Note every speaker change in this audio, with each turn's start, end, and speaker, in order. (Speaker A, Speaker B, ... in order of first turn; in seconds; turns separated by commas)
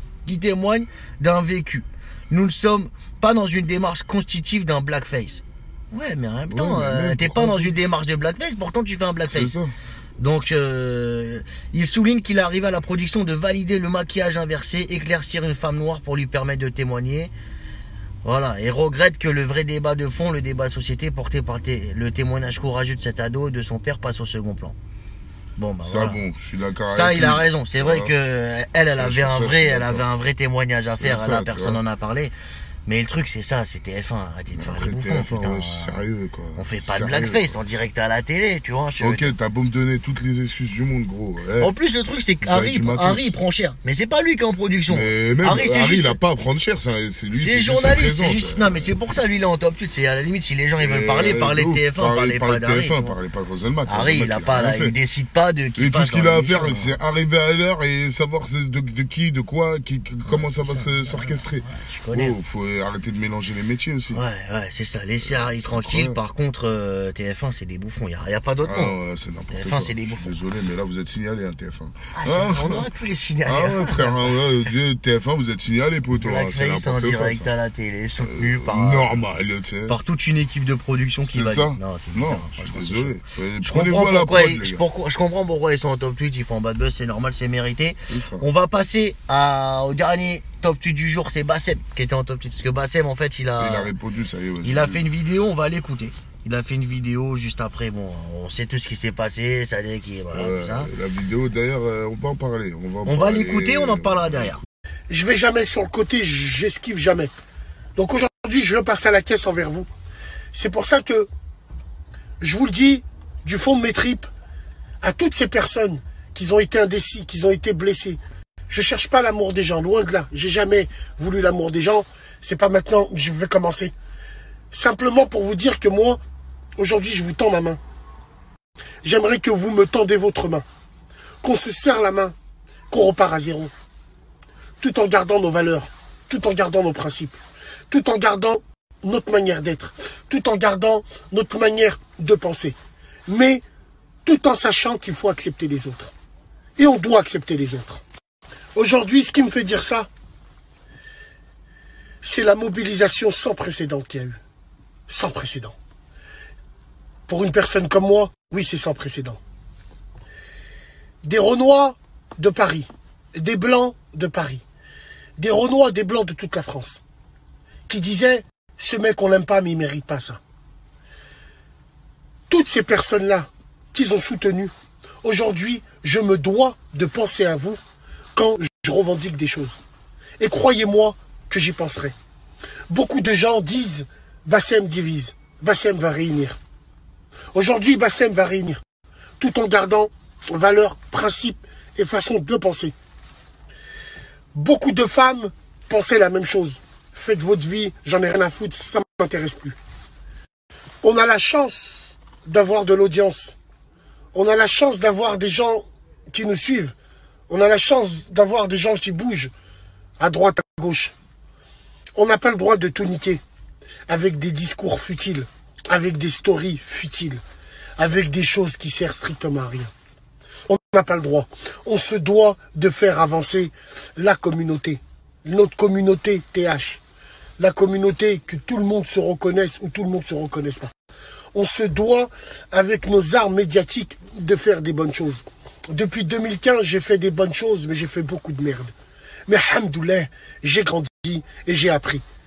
Speaker A: 0.2-9.5, Speaker B: 6.5-7.8, Speaker B: 9.3-9.7, Speaker A: 10.2-17.3, Speaker A: 18.2-24.7, Speaker A: 25.6-26.2, Speaker B: 25.8-28.1, Speaker A: 26.9-32.3, Speaker B: 28.9-30.0, Speaker B: 31.0-31.8, Speaker A: 32.9-36.0, Speaker B: 34.5-37.5, Speaker A: 36.5-39.3, Speaker B: 39.0-41.7, Speaker A: 41.6-46.2, Speaker B: 42.4-43.4, Speaker B: 44.9-48.9, Speaker A: 47.3-53.1, Speaker B: 50.7-54.9, Speaker A: 53.9-57.0, Speaker B: 55.8-64.2, Speaker A: 60.2-62.4, Speaker A: 64.1-69.0, Speaker B: 65.2-66.2, Speaker B: 68.6-72.9, Speaker A: 69.5-70.3, Speaker A: 72.1-74.4, Speaker B: 73.4-77.5, Speaker A: 76.2-79.2, Speaker B: 78.2-80.0, Speaker A: 79.9-93.9, Speaker B: 81.2-84.8, Speaker B: 88.1-88.5, Speaker B: 93.6-95.0, Speaker A: 94.6-100.9, Speaker B: 100.3-104.6, Speaker A: 103.0-104.6, Speaker C: 105.1-107.3, Speaker C: 108.0-109.9, Speaker C: 110.5-111.3, Speaker C: 112.4-114.3, Speaker C: 115.0-123.9, Speaker C: 124.7-126.2, Speaker C: 126.8-127.8, Speaker C: 129.0-130.6, Speaker C: 131.4-132.3, Speaker C: 132.9-133.7, Speaker C: 134.8-137.4, Speaker C: 137.9-142.7, Speaker C: 143.3-143.6, Speaker C: 144.2-146.1, Speaker C: 146.8-148.0, Speaker C: 148.7-150.1, Speaker C: 152.2-154.4, Speaker C: 155.1-155.7, Speaker C: 157.3-159.4, Speaker C: 161.2-164.6, Speaker C: 165.4-167.0, Speaker C: 167.9-170.4, Speaker C: 172.5-174.7, Speaker C: 175.2-177.8, Speaker C: 178.3-179.8, Speaker C: 180.4-182.1, Speaker C: 182.9-186.6, Speaker C: 187.5-188.8, Speaker C: 189.4-192.9, Speaker C: 194.5-199.8, Speaker C: 201.0-203.5, Speaker C: 204.3-206.9, Speaker C: 207.5-209.5, Speaker C: 210.2-211.1, Speaker C: 212.1-213.4, Speaker C: 214.1-217.4, Speaker C: 218.0-219.9, Speaker C: 220.7-227.0, Speaker C: 227.6-230.9, Speaker C: 231.5-238.9, Speaker C: 239.5-242.2